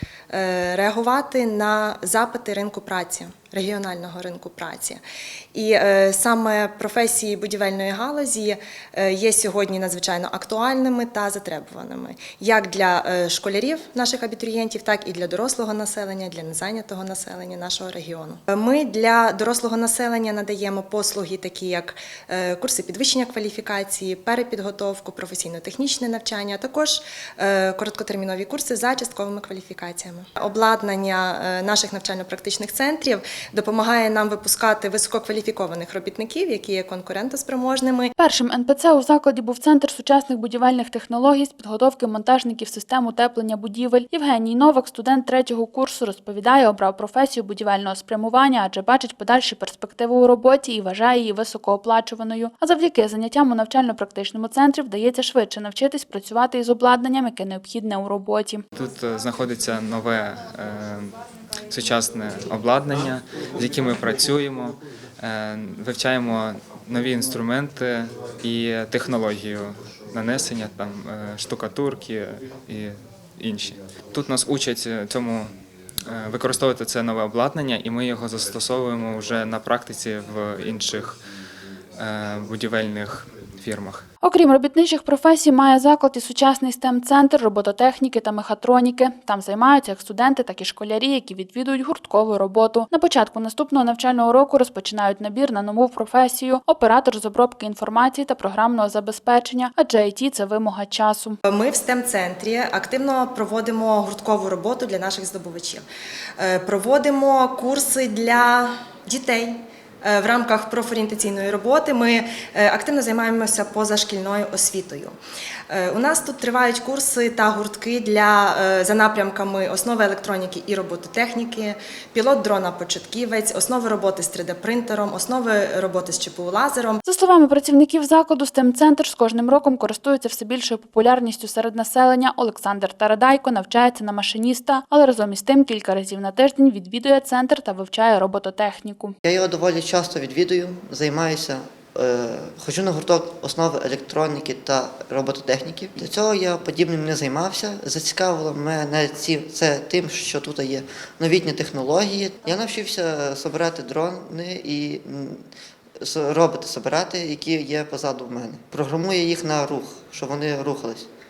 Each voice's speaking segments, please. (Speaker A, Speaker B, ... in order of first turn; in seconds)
Speaker A: 0.3-5.0, 5.5-38.1, 101.5-105.8, 106.4-115.2, 115.7-127.0
Speaker B: 38.2-58.6, 84.2-101.4, 127.0-139.1
Speaker C: 58.7-61.1, 61.7-75.5, 76.1-81.2, 82.0-84.0
Speaker D: 139.2-155.5, 156.0-161.1